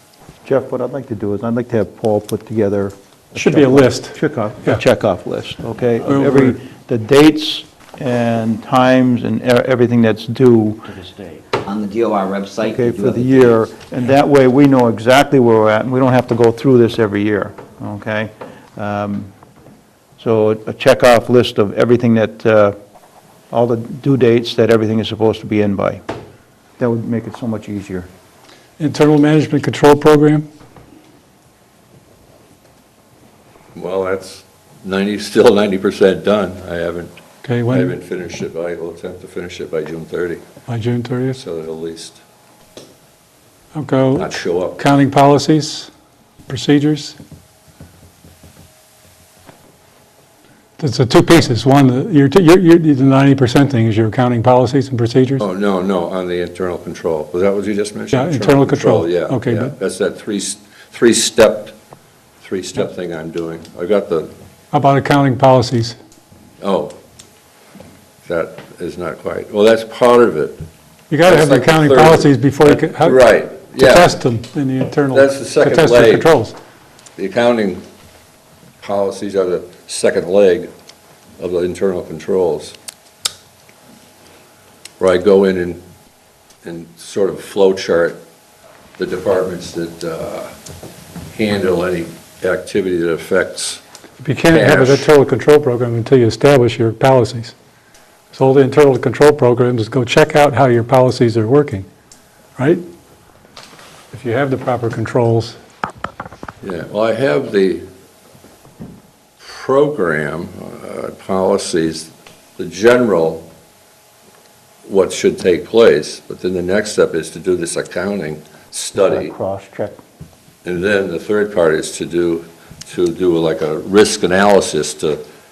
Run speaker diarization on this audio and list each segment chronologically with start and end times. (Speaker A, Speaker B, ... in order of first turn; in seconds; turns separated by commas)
Speaker A: 0.4-11.4, Speaker B: 3.3-4.8, Speaker B: 6.0-6.6, Speaker C: 11.6-13.6, Speaker A: 12.6-19.3, Speaker A: 20.2-22.8, Speaker A: 23.5-26.0, Speaker A: 26.8-28.1, Speaker B: 28.8-30.5, Speaker D: 33.8-37.1, Speaker B: 37.4-37.9, Speaker D: 37.7-40.4, Speaker B: 40.7-41.4, Speaker D: 41.3-42.2, Speaker B: 43.8-45.9, Speaker D: 44.2-44.8, Speaker B: 46.5-47.2, Speaker B: 50.8-55.4, Speaker D: 55.4-61.8, Speaker B: 58.1-59.7, Speaker D: 62.4-64.3, Speaker B: 64.7-66.0, Speaker D: 66.6-66.9, Speaker D: 68.2-70.6, Speaker B: 71.1-73.2, Speaker D: 71.2-74.2, Speaker B: 73.8-76.5, Speaker D: 75.1-76.3, Speaker D: 77.2-77.8, Speaker D: 78.8-80.7, Speaker D: 81.4-82.8, Speaker D: 85.0-85.8, Speaker D: 86.6-88.2, Speaker D: 89.0-90.5, Speaker D: 91.3-93.8, Speaker B: 94.2-97.5, Speaker D: 94.5-95.1, Speaker B: 98.3-101.9, Speaker B: 102.6-102.8, Speaker B: 104.1-105.6, Speaker D: 106.6-107.9, Speaker D: 109.4-113.5, Speaker D: 114.8-119.3, Speaker A: 119.0-120.0, Speaker D: 120.6-125.2